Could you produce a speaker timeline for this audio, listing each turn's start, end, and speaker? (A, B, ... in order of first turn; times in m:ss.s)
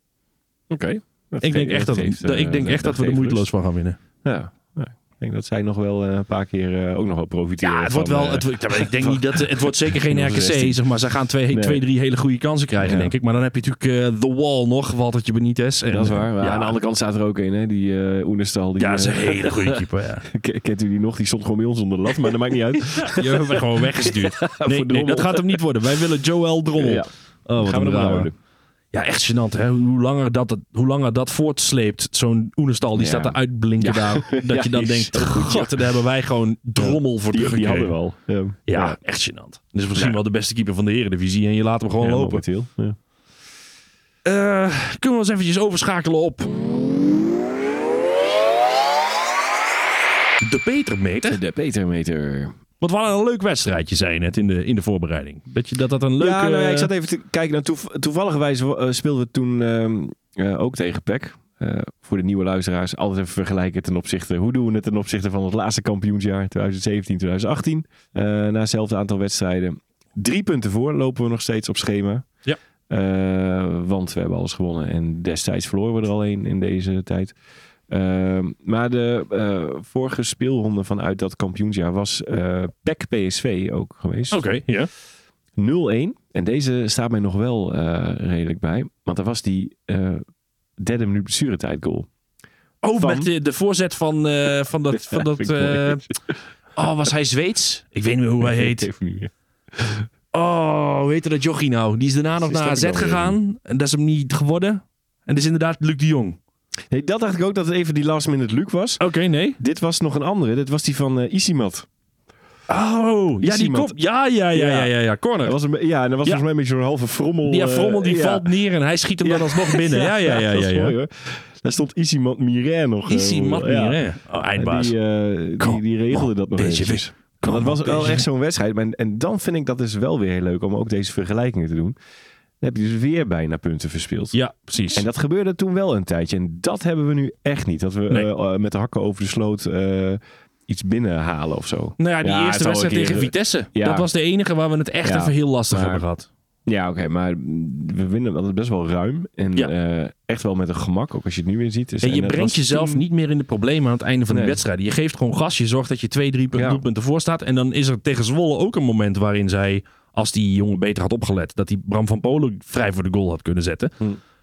0:00.7-0:03.5 A
0:01.4-0:04.0 B
0:04.2-0:10.8 A
0:07.6-0:16.8 B
0:11.5-0:11.8 A
0:12.8-0:13.1 A
0:15.9-0:25.6 A
0:18.8-0:20.2 B
0:23.0-0:28.3 B
0:26.8-0:28.3 A
0:28.9-0:37.9 B
0:33.0-0:35.8 A
0:36.8-0:39.0 A
0:38.7-0:42.4 B
0:42.0-0:43.0 A
0:44.2-0:46.6 B
0:50.4-0:51.4 B
0:51.3-0:52.5 A
0:52.8-0:56.9 B
0:56.2-1:12.3 A
1:12.9-1:17.3 A
1:17.9-1:24.4 A
1:24.3-1:24.9 B
1:25.6-1:30.2 A
1:30.8-1:32.1 A
1:32.8-1:36.0 B
1:33.0-1:33.3 A
1:34.9-1:36.4 A
1:36.8-1:38.9 B
1:38.4-1:40.0 A
1:40.3-1:46.4 B
1:42.4-1:43.4 A
1:46.9-1:49.0 A
1:49.0-1:49.6 B
1:49.6-1:51.9 A
1:52.7-1:55.6 B
1:53.4-1:54.0 A
1:54.5-1:58.5 A
1:57.4-2:00.9 B
1:59.2-2:04.0 A
2:03.1-2:04.9 B
2:04.6-2:12.0 A
2:05.6-2:08.2 B
2:12.6-2:14.4 A
2:14.3-2:15.0 B
2:14.9-2:24.1 A
2:22.0-2:26.3 B
2:25.0-2:26.0 A
2:26.6-2:33.0 A
2:32.0-2:43.9 B
2:34.3-2:34.6 A
2:36.5-2:36.8 A